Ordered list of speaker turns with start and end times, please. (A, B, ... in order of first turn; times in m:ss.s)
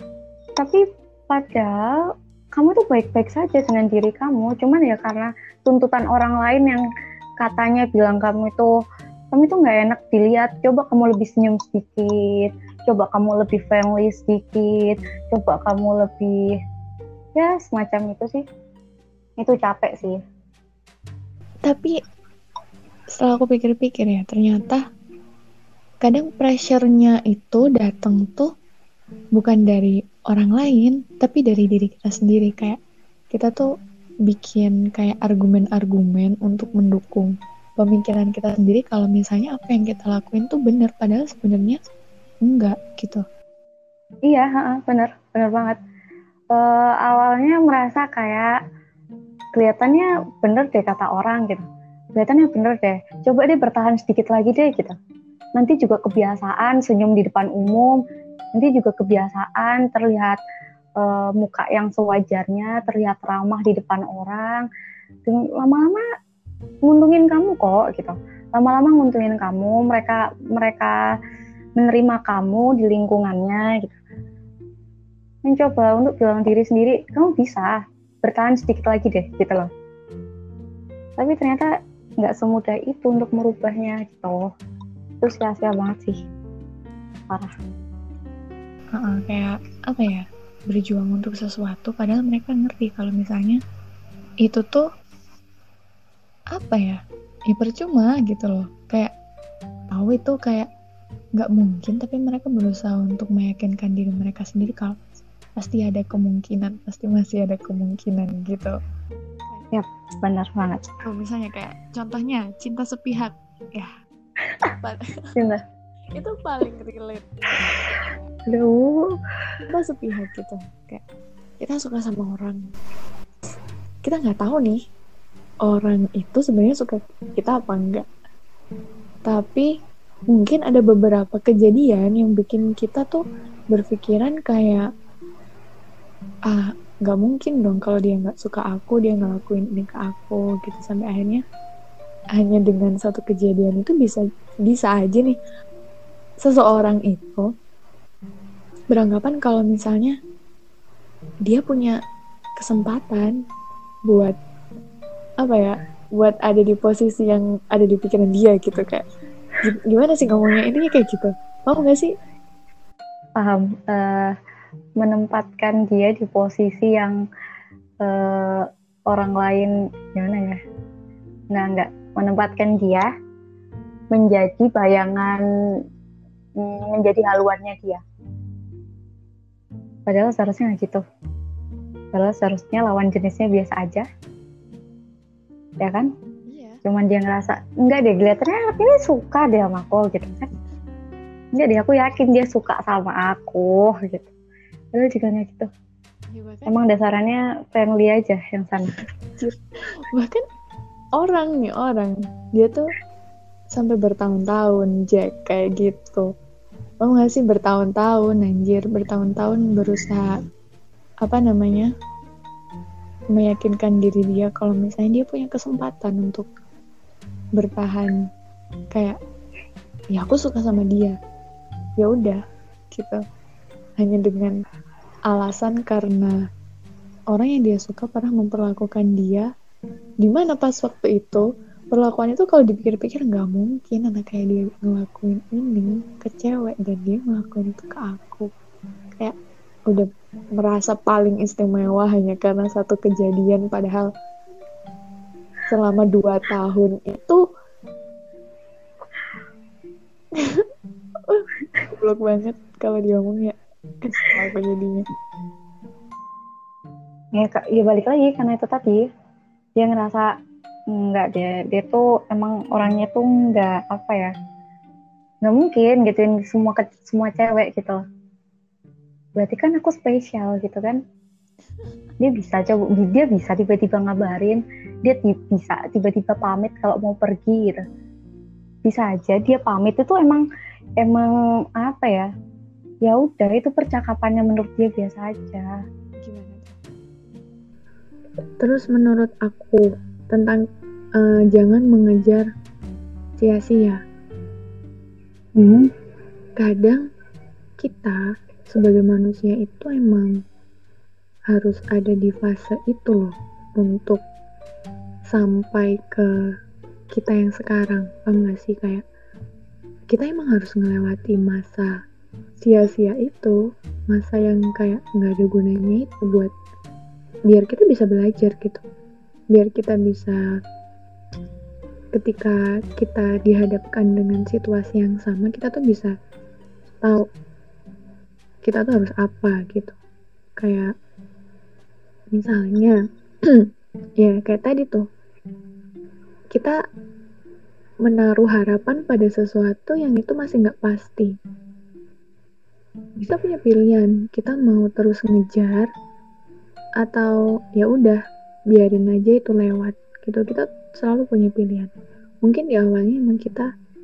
0:00.6-0:01.9 A
0:02.6-0:06.8 A
0:07.4-0:08.7 A
0:09.3-0:16.5 A
0:17.3-0:18.4 A
0:19.4-0:20.2 A
0:21.6-0:21.9 B
0:23.2-0:24.8 B
0:26.0-0:28.5 B
0:29.3-0:32.8 B
0:33.3-0:33.7 B
0:34.2-0:41.8 B
0:42.4-0:43.2 B
0:44.3-0:45.8 A
0:46.5-0:48.5 A
0:49.6-0:51.6 A
0:52.2-0:54.9 A
0:55.6-0:58.0 A
0:58.5-1:00.4 A
1:01.0-1:04.6 A
1:05.3-1:06.0 A
1:06.8-1:10.9 A
1:11.8-1:14.0 A
1:15.4-1:19.7 A
1:21.2-1:21.7 A
1:22.2-1:24.4 A
1:25.2-1:26.2 A
1:28.9-1:33.6 B
1:34.4-1:34.8 B
1:36.5-1:39.1 B
1:39.9-1:40.7 B
1:41.4-1:45.0 B
1:45.6-1:48.7 B
1:49.7-1:50.8 A
1:51.0-1:53.9 B
1:55.4-1:55.6 A
1:56.1-1:57.4 B
1:58.5-1:59.1 A
1:59.7-2:01.0 B
2:01.6-2:02.6 B
2:04.0-2:04.8 B
2:05.6-2:08.0 B
2:09.2-2:09.6 B
2:10.3-2:14.8 B
2:16.5-2:21.4 B
2:22.4-2:25.4 B
2:26.4-2:27.5 B
2:28.9-2:30.2 B
2:31.4-2:32.0 B
2:32.6-2:33.4 B
2:34.1-2:34.4 B
2:35.4-2:39.0 B
2:39.6-2:42.1 B
2:43.4-2:44.3 A
2:45.0-2:47.2 A
2:48.0-2:50.6 A
2:51.5-2:53.1 A
2:54.1-2:55.4 A
2:56.6-2:58.0 A
3:00.1-3:01.0 A
3:02.1-3:04.0 A
3:05.8-3:06.1 A
3:06.5-3:06.8 B
3:06.8-3:10.5 A
3:11.6-3:14.3 A
3:14.9-3:15.7 A
3:16.3-3:16.7 B
3:16.7-3:18.9 A
3:20.1-3:20.4 B
3:21.2-3:22.9 B
3:23.7-3:26.3 B
3:27.0-3:30.3 B
3:31.2-3:31.9 B
3:33.3-3:36.5 B
3:37.6-3:38.2 B
3:38.9-3:39.2 B
3:40.1-3:41.1 B
3:42.0-3:42.4 B
3:42.9-3:43.2 B
3:44.0-3:44.6 B
3:45.3-3:46.4 B
3:47.3-3:49.4 B
3:50.2-3:58.4 B
3:59.9-4:04.1 B
4:05.7-4:07.4 B
4:10.4-4:10.6 B
4:11.3-4:15.0 B
4:17.3-4:19.0 A
4:19.8-4:20.3 A
4:20.9-4:24.3 A
4:25.4-4:28.0 A
4:29.4-4:31.0 A
4:32.2-4:37.8 A
4:38.8-4:40.4 A
4:41.0-4:42.3 A
4:43.0-4:45.7 A
4:46.2-4:46.8 B
4:48.6-4:50.6 B
4:51.2-4:52.4 B
4:53.4-4:54.0 B
4:55.6-4:55.9 A
4:56.6-4:57.0 B
4:57.8-4:58.2 B
4:58.7-5:00.3 B
5:01.5-5:04.2 B
5:05.3-5:06.3 B
5:07.1-5:09.0 B
5:10.1-5:11.9 B
5:12.6-5:13.6 B
5:14.1-5:16.5 B
5:17.5-5:18.8 B
5:19.5-5:20.4 B
5:22.1-5:26.1 B
5:28.6-5:30.0 B
5:30.6-5:30.9 B
5:32.3-5:33.0 B
5:34.2-5:35.0 B
5:38.0-5:41.3 B
5:43.2-5:45.8 B
5:47.0-5:48.2 B
5:48.7-5:51.9 B
5:52.4-5:53.7 B